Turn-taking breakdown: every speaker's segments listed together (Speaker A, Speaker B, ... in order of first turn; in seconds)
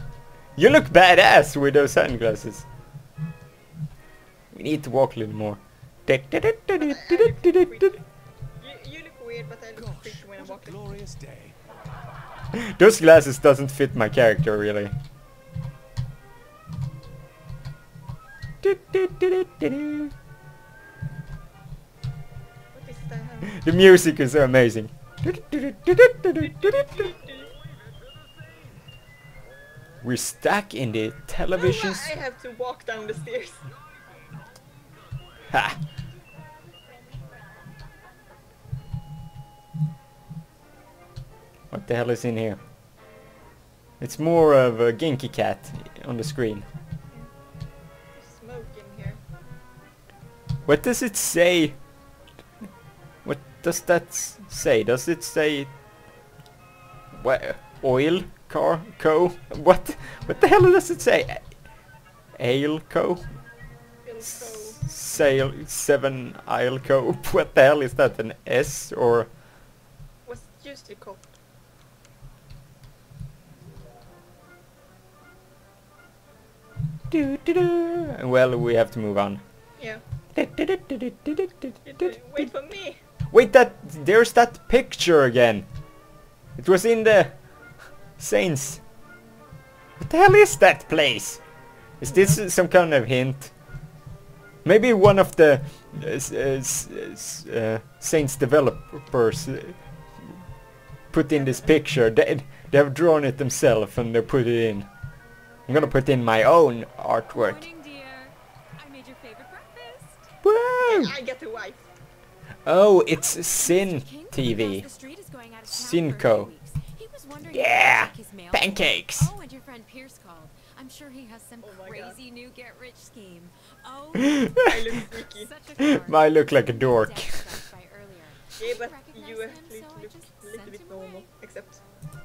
Speaker A: 0.6-2.7, 4.5-7.9, 12.5-14.9, 18.6-20.1, 23.5-26.9, 30.0-32.1, 35.5-35.8, 41.7-42.6, 44.0-46.6, 50.6-51.8, 53.2-55.7, 57.1-61.6, 62.4-63.3, 64.2-69.3, 77.1-79.4, 80.3-82.5, 83.3-85.7, 86.6-87.4, 88.2-88.8, 90.0-91.4, 92.0-93.5, 94.7-99.8, 101.1-104.9, 105.7-107.6, 110.4-111.1, 112.7-114.9, 115.7-116.5, 117.5-119.3, 125.9-127.5
Speaker B: 6.8-8.1, 8.6-11.0, 22.7-23.7, 26.4-27.5, 31.5-33.7, 48.1-49.2, 64.0-64.8, 70.2-71.2, 79.8-80.0, 81.8-83.0, 92.1-92.4, 101.3-101.8, 110.8-111.9, 121.6-122.2, 124.7-125.5, 128.6-131.8
Speaker C: 9.8-11.6, 34.0-35.4
Speaker D: 107.3-110.3, 113.1-124.6, 125.3-131.3